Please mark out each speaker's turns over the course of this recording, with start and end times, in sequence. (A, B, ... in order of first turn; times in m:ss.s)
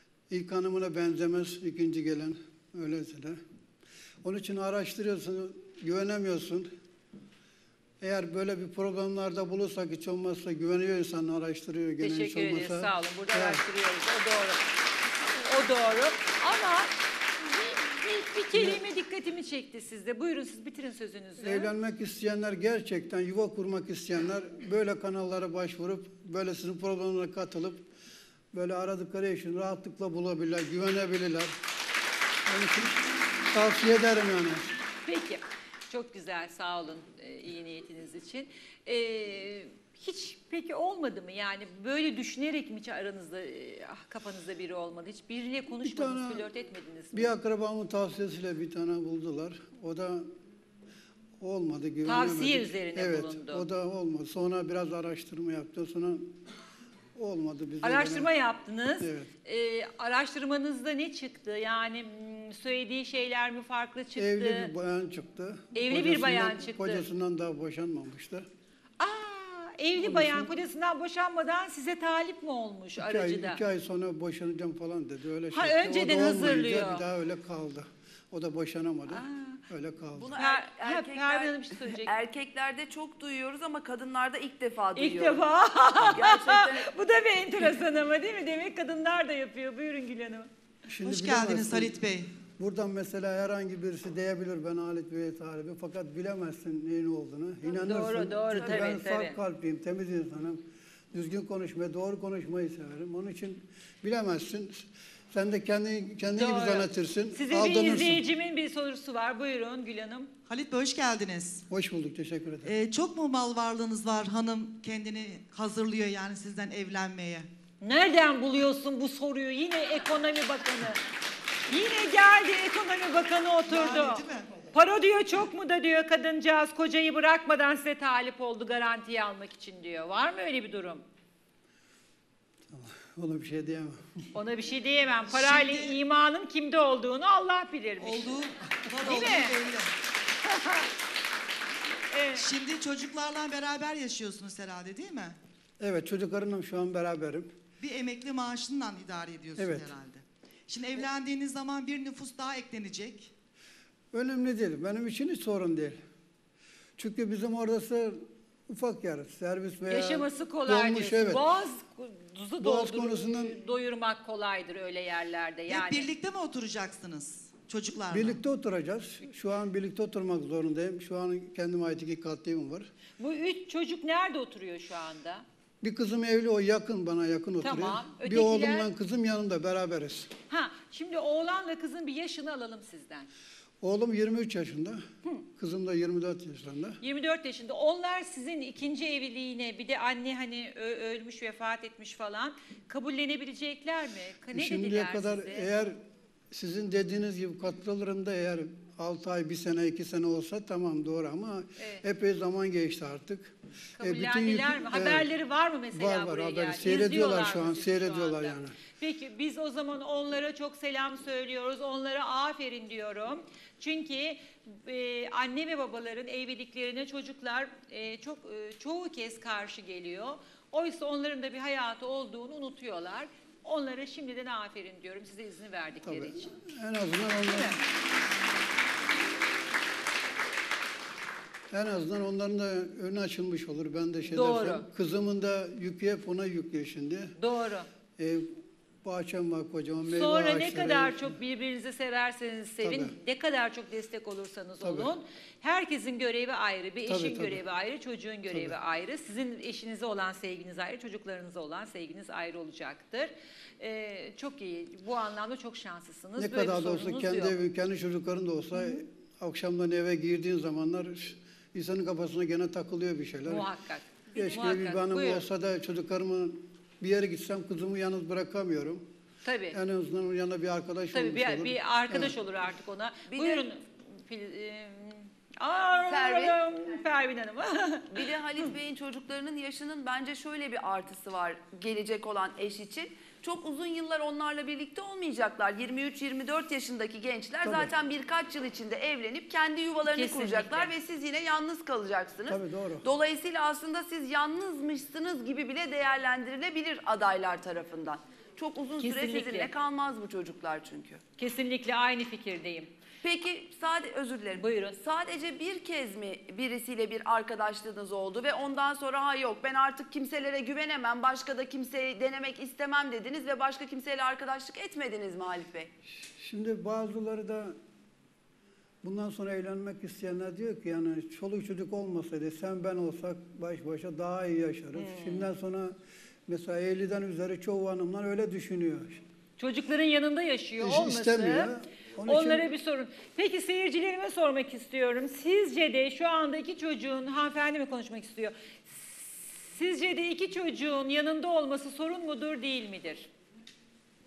0:00.3-0:03.4 A
0:04.2-0:06.7 A
0:08.0-0:13.6 A
0:12.0-0:14.6 B
0:15.4-0:16.9 B
0:17.4-0:21.7 B
0:18.6-0:18.8 A
0:21.4-0:27.8 A
0:28.5-0:31.5 A
0:32.5-0:33.0 A
0:33.5-0:34.7 A
0:35.1-0:47.3 B
0:45.8-0:46.5 A
0:47.1-0:50.3 A
0:51.4-0:56.4 A
0:52.0-0:53.7 B
0:57.2-0:58.3 A
0:57.8-1:04.7 B
0:59.0-0:59.3 A
1:04.2-1:08.5 A
1:05.8-1:07.1 B
1:09.0-1:13.6 B
1:10.0-1:10.5 A
1:13.0-1:20.3 A
1:15.5-1:17.0 B
1:19.1-1:19.6 B
1:20.2-1:25.5 C
1:20.4-1:22.1 B
1:25.0-1:30.5 B
1:26.0-1:26.9 C
1:30.9-1:32.0 A
1:31.0-1:32.3 D
1:32.6-1:40.6 A
1:37.7-1:39.4 B
1:38.6-1:38.9 C
1:41.1-1:48.2 A
1:46.3-1:50.3 B
1:50.5-1:51.6 D
1:51.7-1:52.7 A
1:52.6-1:57.5 D
1:57.8-2:01.0 B
2:01.7-2:11.0 B
2:03.7-2:04.5 D
2:12.7-2:14.2 A
2:14.3-2:18.4 B
2:15.3-2:16.0 D
2:18.0-2:19.9 D
2:18.9-2:19.6 B
2:20.5-2:20.9 B
2:22.1-2:22.5 B
2:22.4-2:25.4 D
2:25.8-2:27.5 A
2:27.8-2:33.3 D
2:29.6-2:29.9 A
2:34.1-2:36.0 A
2:37.0-2:41.4 A
2:39.9-2:46.1 B
2:42.6-2:43.6 A
2:45.7-2:48.4 D
2:48.1-2:52.9 A
2:53.2-2:55.4 B
2:55.8-3:00.3 A
2:57.6-2:58.9 B
3:00.5-3:03.3 B
3:03.8-3:05.0 A
3:05.6-3:07.0 A
3:07.0-3:15.7 B
3:14.5-3:16.0 A
3:16.5-3:25.3 A
3:24.0-3:46.5 B
3:25.9-3:28.8 A
3:46.1-3:47.8 A
3:51.7-3:57.4 A
3:54.3-3:54.8 B
3:57.4-3:57.9 B
3:58.2-3:58.5 A
3:59.0-4:01.3 A
4:00.1-4:17.6 B
4:02.8-4:03.2 A
4:04.8-4:05.1 A
4:07.1-4:07.6 A
4:08.5-4:08.8 A
4:16.4-4:23.7 A
4:23.5-4:25.4 B
4:24.3-4:29.0 A
4:29.4-4:29.8 B
4:29.7-4:32.4 A
4:31.1-4:38.2 B
4:33.3-4:33.6 C
4:36.1-4:36.6 C
4:38.1-5:01.2 C
4:47.6-4:47.9 A
4:50.1-4:50.9 B
4:52.5-4:53.1 A
4:59.0-4:59.7 B
5:01.4-5:02.9 B
5:03.2-5:15.9 C
5:04.6-5:05.0 B
5:16.2-5:17.8 A
5:19.0-5:26.0 A
5:25.0-5:25.5 B
5:26.5-5:29.2 A
5:29.6-5:31.7 B
5:30.8-5:32.6 A
5:32.3-5:43.3 B